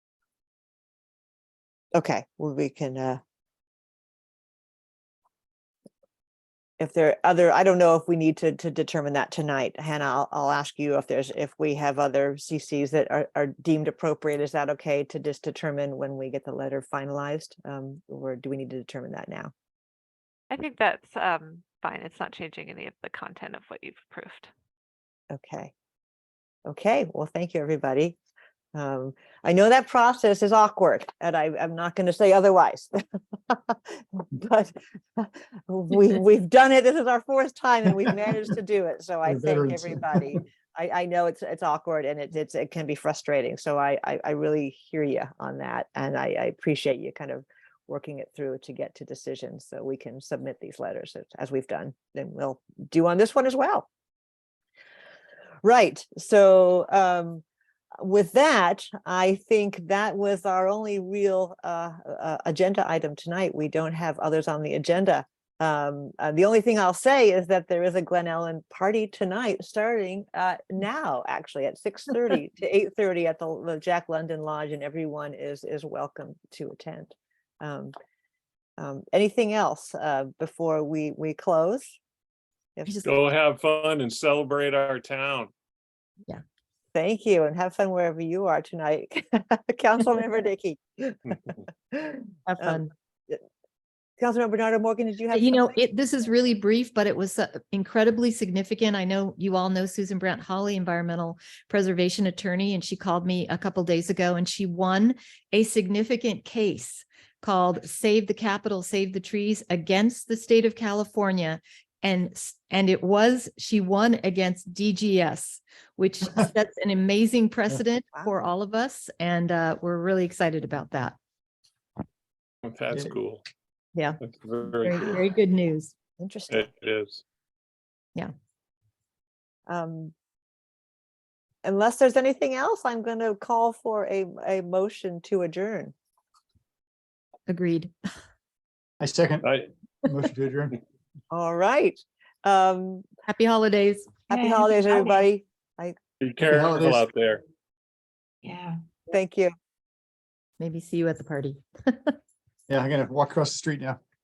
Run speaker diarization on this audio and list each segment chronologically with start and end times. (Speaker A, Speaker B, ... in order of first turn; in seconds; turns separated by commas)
Speaker A: 1.9-3.2, Speaker A: 6.8-19.5, Speaker B: 20.5-24.5, Speaker A: 25.3-25.7, Speaker A: 26.6-28.2, Speaker A: 28.7-33.0, Speaker A: 33.5-53.9, Speaker C: 39.2-40.4, Speaker A: 55.6-57.4, Speaker A: 58.0-77.9, Speaker A: 78.8-82.0, Speaker D: 82.8-83.1, Speaker E: 83.0-85.5, Speaker A: 86.9-93.4, Speaker D: 92.5-92.9, Speaker A: 94.2-95.7, Speaker D: 95.3-121.2, Speaker E: 122.6-123.4, Speaker D: 123.9-124.2, Speaker E: 124.2-125.3, Speaker D: 124.8-125.9, Speaker A: 126.2-126.7, Speaker E: 126.5-127.2, Speaker A: 129.7-130.1, Speaker A: 131.6-135.9, Speaker D: 137.5-137.9, Speaker C: 139.0-139.5, Speaker E: 139.4-139.7, Speaker C: 140.1-140.8, Speaker A: 141.3-143.1, Speaker D: 143.2-144.3, Speaker A: 144.3-145.9, Speaker B: 144.4-145.2, Speaker E: 146.2-147.4, Speaker C: 146.4-147.0, Speaker B: 148.4-148.7, Speaker A: 149.1-149.5, Speaker D: 150.6-152.2, Speaker C: 152.7-154.0